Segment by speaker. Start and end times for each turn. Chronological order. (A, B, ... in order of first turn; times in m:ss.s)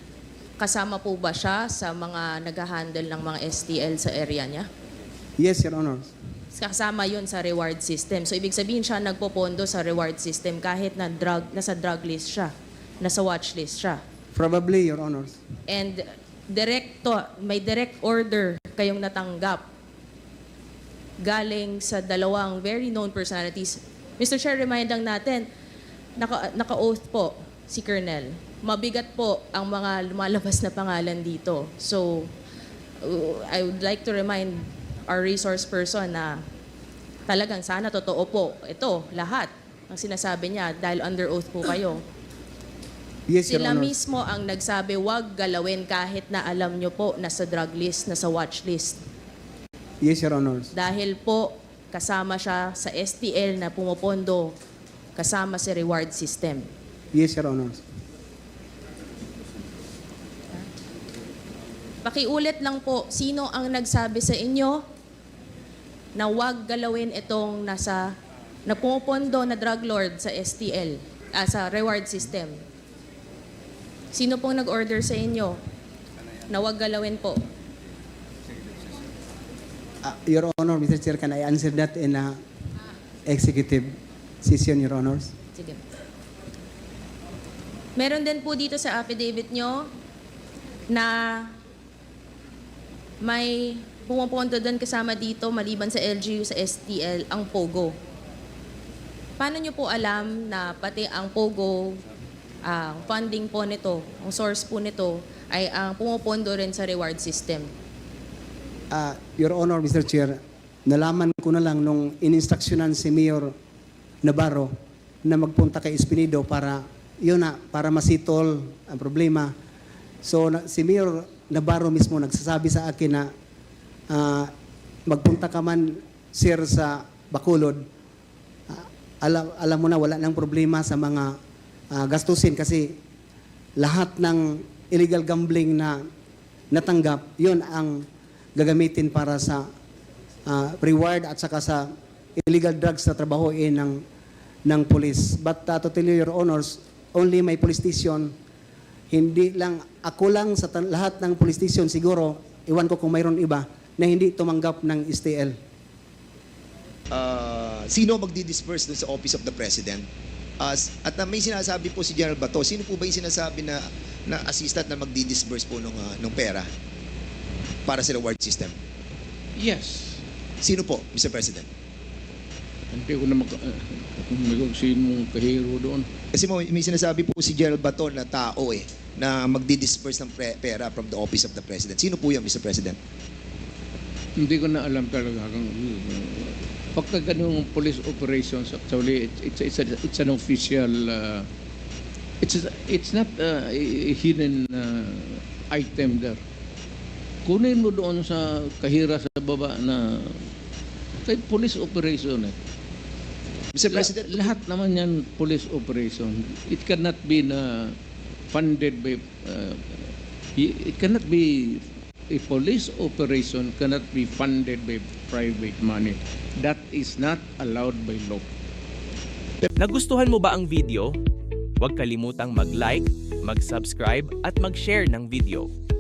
0:00.6-0:04.7 A
0:05.4-0:06.1 B
0:06.5-0:14.0 A
0:14.3-0:15.4 B
0:15.7-0:19.7 A
0:21.2-0:25.5 A
0:26.2-0:32.3 A
0:33.0-0:36.4 A
0:37.3-0:42.0 A
0:43.3-0:44.0 B
0:43.5-0:49.0 A
0:50.0-0:50.7 B
0:50.7-0:54.6 A
0:55.2-0:56.7 A
0:57.1-0:57.8 B
1:02.0-1:04.8 A
1:06.2-1:08.1 A
1:08.7-1:12.6 A
1:14.1-1:15.6 A
1:16.5-1:17.4 A
1:20.0-1:22.4 B
1:23.3-1:25.3 B
1:25.5-1:25.8 A
1:28.0-1:29.9 A
1:30.9-1:31.6 A
1:33.2-1:38.0 A
1:39.4-1:42.0 A
1:42.6-1:47.7 A
1:48.9-1:53.5 B
1:54.2-1:54.7 B
1:55.2-1:59.5 B
2:00.2-2:03.3 B
2:04.1-2:04.5 B
2:05.1-2:07.8 B
2:08.7-2:11.3 B
2:11.9-2:12.9 B
2:13.8-2:16.0 B
2:16.7-2:18.0 B
2:18.6-2:19.7 B
2:20.5-2:21.9 B
2:22.4-2:24.0 B
2:24.7-2:28.3 B
2:29.1-2:35.6 B
2:37.1-2:40.1 C
2:40.6-2:46.7 C
2:47.9-2:48.8 C
2:49.6-2:50.2 D
2:50.6-2:51.7 C
2:52.9-2:56.1 D
2:56.3-3:03.0 C
3:04.4-3:11.5 D
3:12.4-3:16.4 D
3:17.5-3:20.5 D
3:21.3-3:22.6 D
3:23.7-3:24.5 C
3:23.9-3:28.0 D
3:28.5-3:29.8 D
3:30.6-3:31.8 D
3:32.3-3:38.5 D
3:39.8-3:41.1 E
3:41.8-3:45.7 E